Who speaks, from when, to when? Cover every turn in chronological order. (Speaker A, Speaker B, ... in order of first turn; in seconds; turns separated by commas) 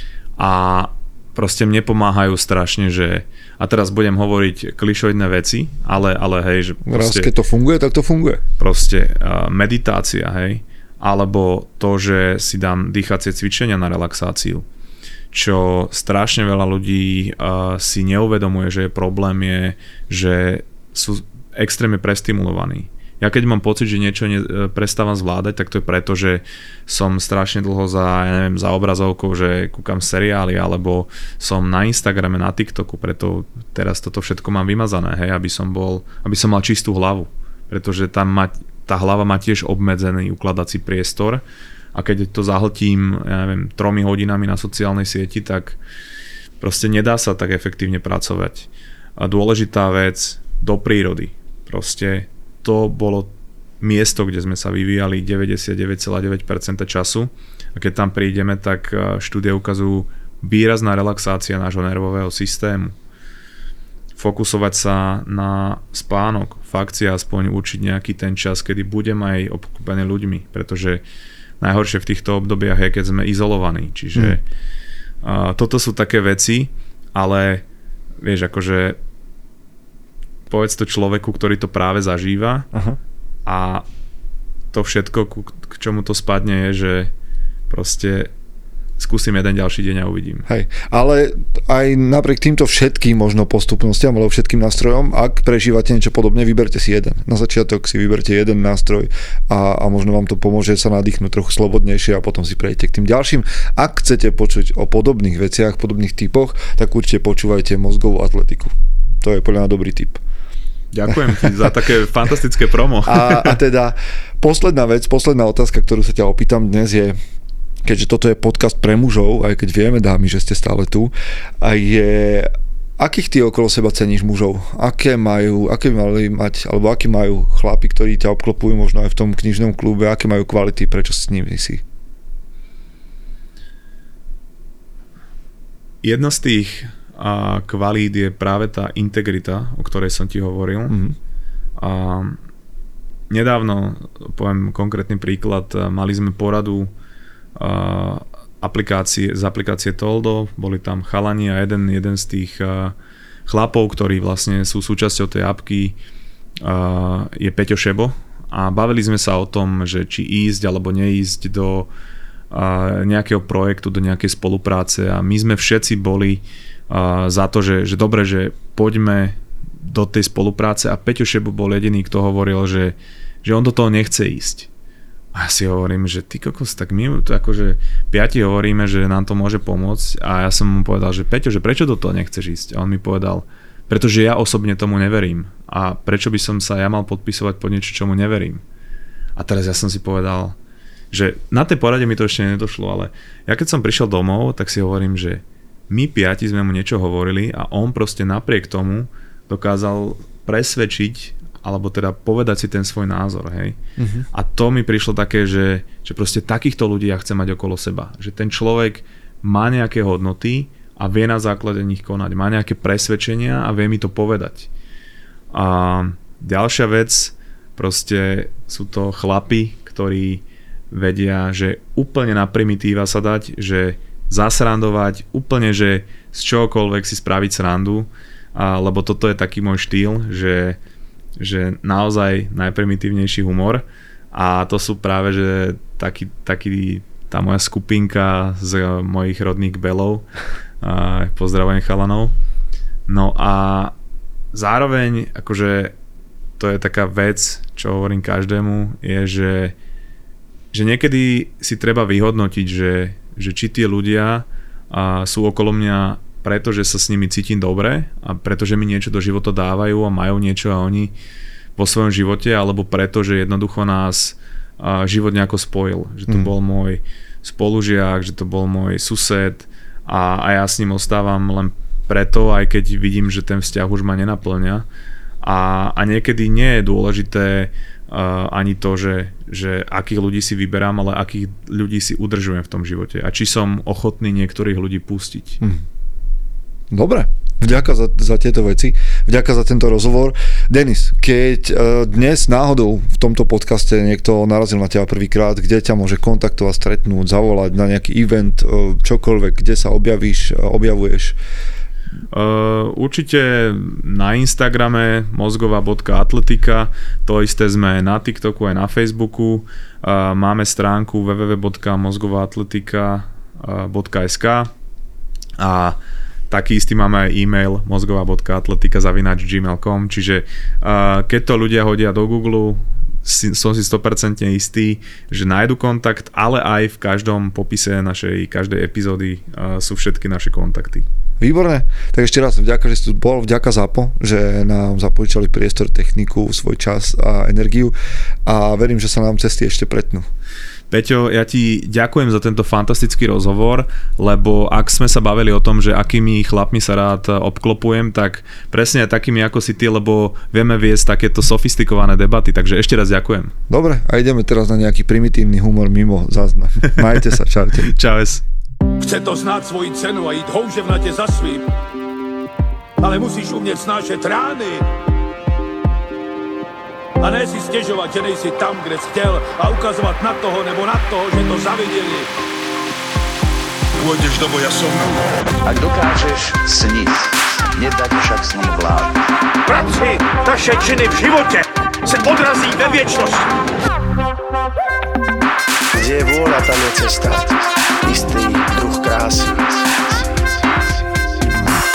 Speaker A: 0.4-7.3, Speaker B: 6.8-8.4, Speaker A: 8.6-14.6, Speaker A: 15.3-41.4, Speaker A: 41.9-45.8, Speaker A: 46.6-63.0, Speaker A: 64.2-71.0, Speaker A: 71.6-74.4, Speaker A: 75.2-77.6, Speaker A: 78.2-79.0, Speaker A: 80.5-82.7, Speaker B: 82.7-83.0, Speaker A: 83.5-83.8, Speaker A: 84.7-87.1, Speaker A: 87.7-88.3, Speaker A: 89.0-90.4, Speaker B: 90.5-110.2, Speaker A: 110.9-113.5, Speaker B: 111.1-111.7, Speaker B: 113.0-117.2, Speaker B: 117.8-131.8, Speaker A: 136.0-140.9, Speaker B: 140.9-141.2, Speaker A: 141.8-142.4, Speaker A: 143.3-146.9, Speaker A: 147.6-152.9, Speaker A: 153.5-156.0, Speaker A: 156.6-161.9, Speaker A: 162.5-174.7, Speaker A: 175.3-188.6, Speaker A: 189.3-190.6, Speaker A: 191.1-203.8, Speaker B: 204.0-204.3, Speaker A: 204.3-214.7, Speaker A: 215.5-230.8, Speaker A: 231.4-240.3, Speaker A: 240.8-242.3, Speaker A: 243.1-243.9, Speaker A: 244.5-245.9, Speaker A: 246.6-249.7, Speaker A: 250.7-261.1, Speaker A: 261.8-274.9, Speaker A: 275.4-285.6, Speaker B: 286.9-301.4, Speaker A: 302.3-314.7, Speaker A: 315.6-316.0, Speaker A: 316.5-331.1, Speaker B: 331.4-337.9, Speaker B: 338.4-340.3, Speaker A: 340.9-353.5, Speaker B: 353.7-357.9, Speaker A: 357.8-358.4, Speaker C: 359.0-361.6, Speaker C: 363.0-364.9, Speaker C: 367.2-372.3, Speaker C: 374.0-375.4, Speaker D: 375.6-379.2, Speaker C: 379.7-383.5, Speaker E: 385.9-391.2